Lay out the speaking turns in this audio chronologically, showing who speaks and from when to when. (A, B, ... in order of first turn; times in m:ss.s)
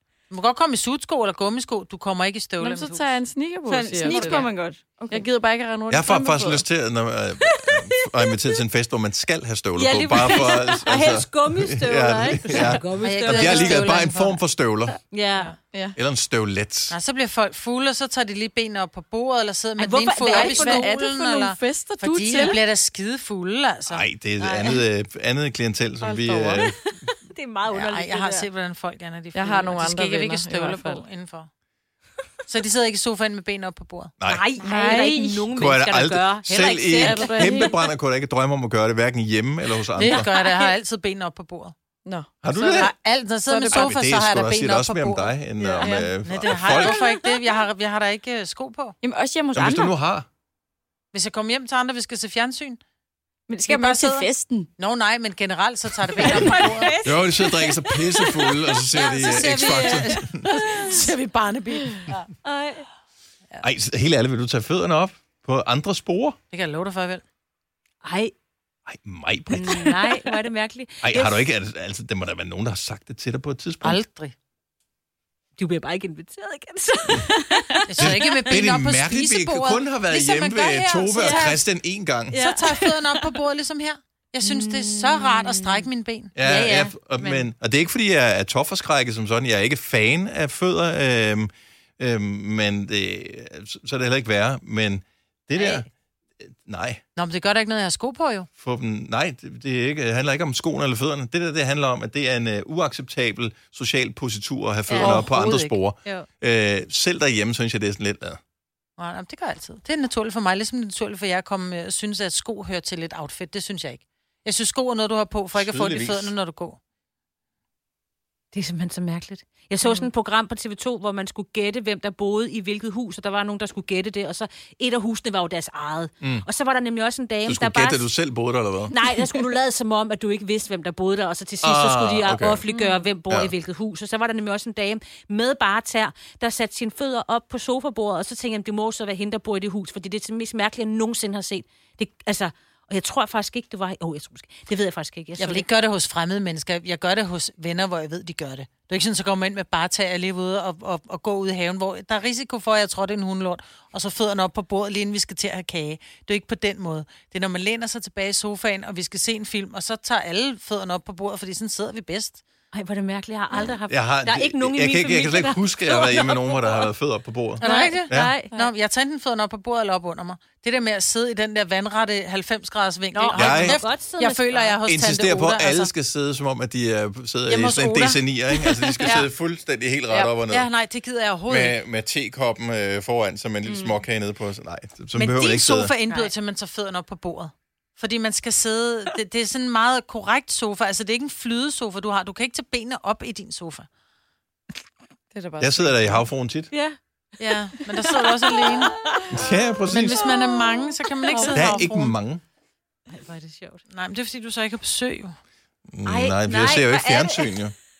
0:00.3-0:03.2 A
0:02.6-0:06.6 B
0:03.7-0:05.3 C
0:04.1-0:04.3 A
0:05.9-0:15.0 D
0:09.8-0:13.8 E
0:13.0-0:14.4 A
0:15.1-0:15.6 E
0:15.7-0:16.0 B
0:16.0-0:17.0 D
0:16.9-0:24.0 A
0:19.8-0:20.8 E
0:20.2-0:22.6 B
0:23.9-0:26.8 D
0:24.4-0:24.8 E
0:26.0-0:26.7 B
0:26.6-0:28.5 E
0:27.7-0:31.5 A
0:29.3-0:31.0 B
0:32.5-0:34.1 A
0:34.2-0:37.7 E
0:34.6-0:35.3 B
0:34.6-0:35.0 C
0:35.5-0:40.3 D
0:37.0-0:37.7 B
0:40.0-0:41.7 A
0:42.0-0:42.3 B
0:42.4-0:42.9 D
0:42.5-0:49.0 A
0:43.5-0:43.9 B
0:43.7-0:47.0 D
0:46.7-0:47.1 C
0:49.0-0:49.9 C
0:49.5-0:50.3 D
0:51.1-0:52.8 A
0:53.5-0:54.7 C
0:53.7-0:56.9 A
0:56.2-0:58.7 C
0:56.2-0:56.5 D
0:57.0-1:00.5 D
0:58.9-1:02.3 A
1:02.4-1:02.8 E
1:03.6-1:06.4 D
1:06.5-1:07.2 A
1:08.0-1:08.3 E
1:08.8-1:10.2 D
1:09.5-1:11.5 E
1:11.0-1:14.0 D
1:13.8-1:14.3 A
1:15.6-1:18.6 E
1:17.9-1:21.6 A
1:18.0-1:22.4 D
1:21.2-1:21.5 E
1:22.3-1:23.4 E
1:22.3-1:26.4 A
1:24.4-1:25.9 E
1:26.4-1:35.9 D
1:26.4-1:27.5 E
1:35.6-1:35.8 E
1:36.4-1:37.0 D
1:37.1-1:38.5 A
1:38.6-1:48.4 D
1:44.9-1:45.3 E
1:44.9-1:45.8 A
1:49.0-1:56.8 A
1:55.5-1:56.3 D
1:58.5-2:08.1 E
2:07.4-2:09.2 D
2:08.9-2:25.6 E
2:11.6-2:12.6 D
2:25.4-2:42.4 A
2:42.7-2:46.9 E
2:43.9-2:48.3 D
2:47.6-2:48.5 E
2:47.6-2:55.9 A
2:53.1-2:54.8 E
2:53.4-2:53.8 D
2:54.8-3:00.7 D
2:57.5-2:59.2 A
3:00.5-3:01.8 A
3:01.5-3:05.9 D
3:03.7-3:04.0 E
3:05.1-3:13.9 A
3:15.3-3:16.3 B
3:15.6-3:16.7 D
3:16.7-3:19.3 E
3:17.4-3:19.1 A
3:19.3-3:20.3 D
3:19.9-3:22.1 A
3:20.2-3:21.5 E
3:21.3-3:21.8 B
3:21.5-3:22.4 D
3:23.1-3:23.8 E
3:23.9-3:25.4 A
3:25.9-3:27.7 D
3:26.0-3:27.6 E